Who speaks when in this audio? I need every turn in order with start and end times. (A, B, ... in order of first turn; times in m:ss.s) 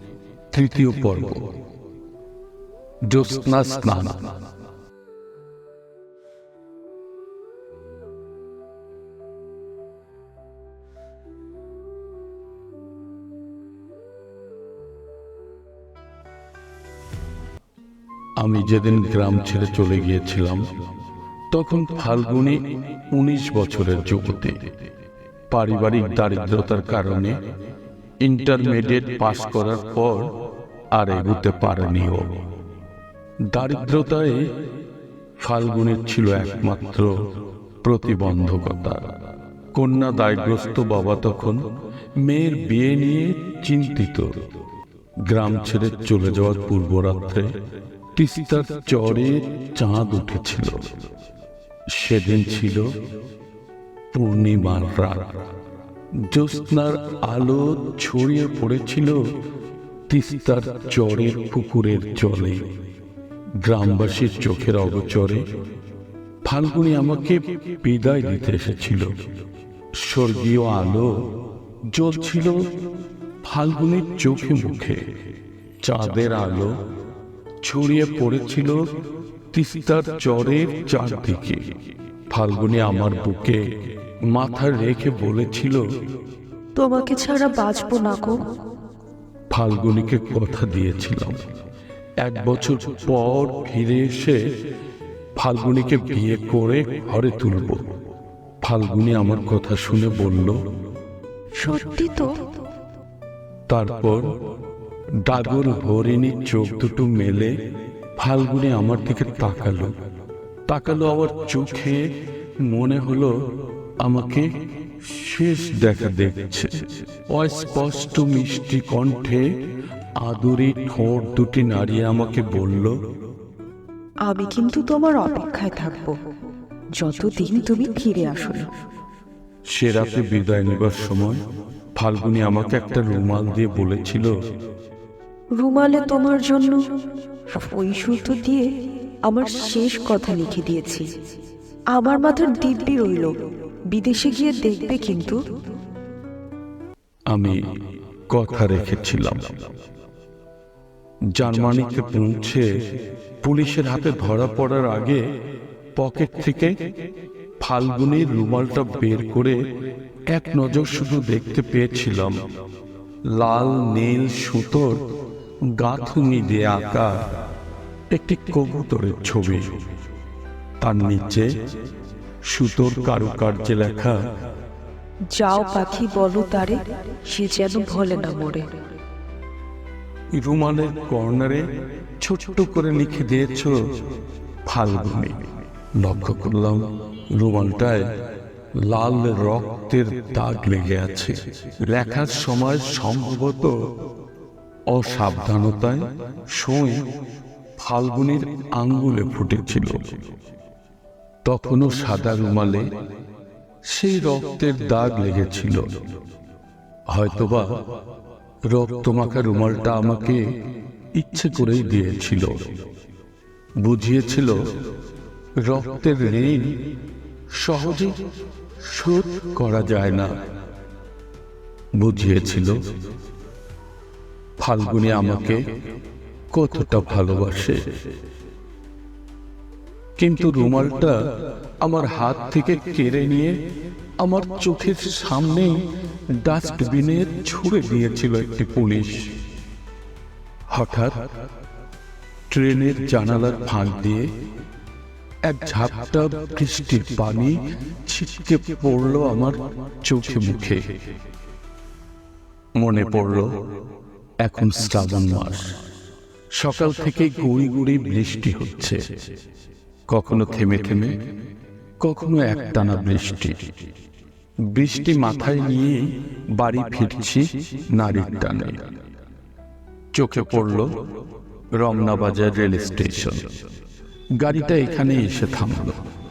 0:00.5-0:01.5 A
0:03.0-0:04.3 A
0:18.4-0:20.7 A
0:21.5-0:24.6 A
0:25.5-0:27.4 A
0:28.2-0:30.3 A
0:30.9-0:32.4 A
0:33.5-0:34.5 A
0:35.4-0:37.2 A
0:37.8-0:39.1 A
0:39.7-0:41.6 A
0:42.2-0:44.4 A
0:45.3-0:47.5 A
0:48.2-0:51.0 A
0:51.9-0:52.9 A
0:54.1-0:55.5 A
0:56.2-0:59.2 A
1:00.1-1:02.7 A
1:03.6-1:05.5 A
1:06.4-1:09.2 A
1:10.0-1:11.3 A
1:11.9-1:12.7 A
1:13.4-1:15.1 A
1:15.8-1:16.8 A
1:17.6-1:18.9 A
1:19.5-1:21.8 A
1:22.3-1:23.7 A
1:24.3-1:25.8 A
1:26.8-1:28.5 B
1:29.5-1:31.5 A
1:32.2-1:34.5 A
1:35.4-1:38.0 A
1:38.6-1:40.6 A
1:41.6-1:42.4 B
1:43.7-1:44.3 A
1:45.2-1:47.6 A
1:48.2-1:50.0 A
1:50.7-1:52.1 A
1:52.6-1:53.4 A
1:54.0-1:54.5 A
1:55.0-1:59.6 A
2:00.2-2:03.0 A
2:04.2-2:06.2 B
2:07.0-2:08.7 B
2:09.7-2:11.4 A
2:12.0-2:14.3 A
2:15.6-2:16.8 B
2:17.5-2:18.7 B
2:19.3-2:21.1 B
2:21.9-2:23.3 B
2:23.9-2:25.4 B
2:27.3-2:27.7 A
2:28.3-2:29.7 A
2:31.4-2:32.7 A
2:33.4-2:35.2 A
2:36.0-2:36.8 A
2:37.6-2:39.6 A
2:40.3-2:42.4 A
2:43.3-2:45.0 A
2:45.7-2:47.3 A
2:48.1-2:49.8 A
2:50.8-2:51.6 A
2:52.4-2:54.2 A
2:55.3-2:58.7 B
3:00.3-3:03.8 A
3:04.6-3:08.1 A
3:08.8-3:13.8 A
3:14.9-3:17.0 A
3:17.8-3:20.2 A
3:21.4-3:22.9 A
3:23.9-3:26.0 A
3:27.1-3:27.7 A
3:28.7-3:30.4 A
3:31.1-3:32.7 A
3:33.8-3:34.6 A
3:35.6-3:36.8 A
3:37.5-3:38.2 A
3:38.8-3:40.3 A
3:42.0-3:42.8 A
3:44.6-3:45.6 A
3:46.5-3:47.8 A
3:50.2-3:51.2 A
3:51.8-3:53.6 A
3:54.2-3:55.8 A
3:56.4-3:59.3 A
4:00.7-4:01.3 A
4:02.5-4:04.3 A
4:05.4-4:10.9 A
4:12.8-4:13.5 A
4:14.4-4:15.8 A
4:16.6-4:19.1 A
4:20.1-4:21.2 A
4:22.0-4:23.7 A
4:24.7-4:28.9 A
4:30.1-4:31.0 A
4:31.8-4:33.5 A
4:34.4-4:36.0 A